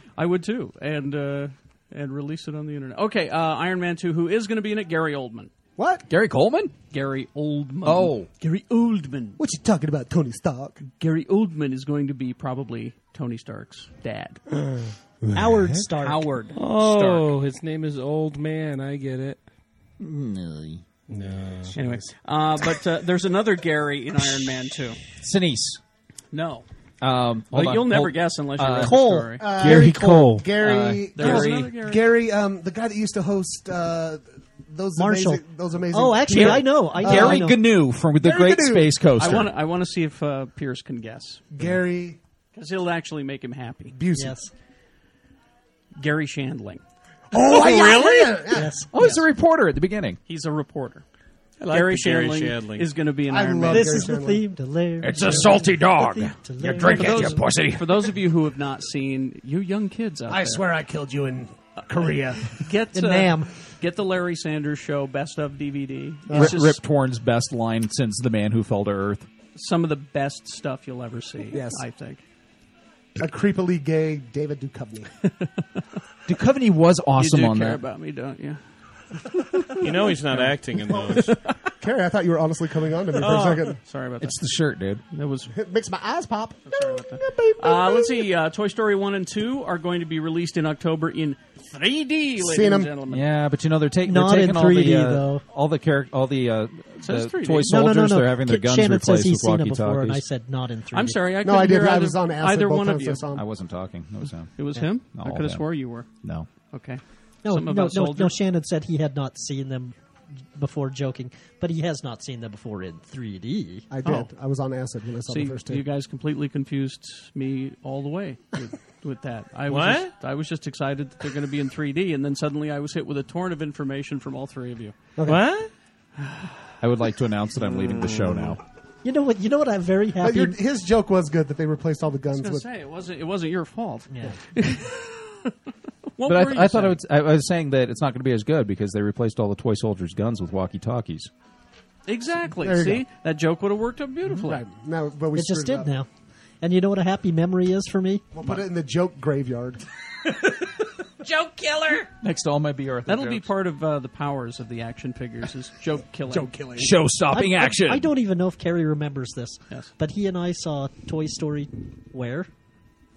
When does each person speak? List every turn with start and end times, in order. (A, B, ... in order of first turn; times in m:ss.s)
0:00.2-0:05.5 A
0:05.8-0:06.1 B
0:06.1-0:06.7 C
0:06.9-0:09.4 A
0:07.8-0:08.3 C
0:09.4-0:10.8 B
0:10.8-0:14.4 A
0:14.6-0:15.4 B
0:15.3-0:16.3 D
0:16.0-0:16.6 A
0:16.6-0:19.4 E
0:17.0-0:17.3 C
0:20.0-0:20.8 C
0:21.1-0:21.8 E
0:21.7-0:22.1 B
0:21.8-0:25.0 A
0:25.2-0:25.8 C
0:26.3-0:26.7 A
0:27.0-0:29.1 C
0:27.5-0:29.5 A
0:28.9-0:30.5 E
0:29.4-0:37.5 B
0:30.6-0:31.7 C
0:30.7-0:32.1 A
0:35.0-0:37.6 D
0:36.3-0:39.5 C
0:38.2-0:39.5 B
0:39.2-0:41.4 A
0:41.5-0:42.2 B
0:42.5-0:44.0 A
0:43.9-0:44.5 B
0:44.1-0:44.5 D
0:46.0-0:46.8 A
0:47.3-0:48.8 B
0:48.5-0:48.9 D
0:48.9-0:50.2 C
0:49.0-0:49.2 A
0:50.3-0:51.0 A
0:51.6-0:52.9 E
0:51.7-0:54.1 A
0:53.3-0:54.4 B
0:53.7-0:57.4 D
0:55.0-0:57.8 C
0:56.9-1:00.6 A
1:00.3-1:02.6 B
1:02.4-1:06.8 A
1:02.9-1:03.5 D
1:06.3-1:06.6 B
1:06.3-1:09.3 C
1:09.6-1:12.2 A
1:11.5-1:11.8 B
1:13.2-1:15.1 B
1:16.3-1:17.8 C
1:17.2-1:18.6 A
1:19.4-1:19.8 A
1:19.8-1:21.4 E
1:20.9-1:21.2 B
1:21.2-1:21.5 A
1:21.8-1:23.8 B
1:23.2-1:24.4 A
1:24.2-1:25.0 C
1:25.1-1:25.5 A
1:25.5-1:28.3 B
1:26.7-1:33.3 A
1:32.4-1:32.9 B
1:33.1-1:40.2 C
1:34.0-1:35.4 D
1:37.0-1:37.7 A
1:37.7-1:41.3 D
1:40.9-1:43.2 A
1:41.4-1:43.4 B
1:43.3-1:45.7 C
1:44.6-1:46.1 A
1:46.2-1:46.5 C
1:46.7-1:48.4 A
1:47.4-1:50.0 D
1:50.6-1:53.9 D
1:53.9-1:55.8 B
1:54.0-1:54.3 A
1:55.3-2:05.0 A
1:59.7-2:00.1 E
2:05.2-2:05.5 B
2:05.2-2:05.7 E
2:06.8-2:08.6 C
2:09.0-2:10.6 D
2:10.2-2:12.6 B
2:12.4-2:15.5 A
2:14.1-2:14.4 D
2:16.2-2:17.0 A
2:16.3-2:21.3 C
2:22.1-2:24.6 A
2:22.6-2:23.1 B
2:24.4-2:25.9 B
2:25.3-2:26.1 D
2:26.6-2:28.2 D
2:28.3-2:29.8 B
2:31.2-2:32.1 A
2:32.2-2:33.5 C
2:33.1-2:36.5 A
2:36.3-2:36.9 B
2:36.8-2:38.1 C
2:37.3-2:42.5 D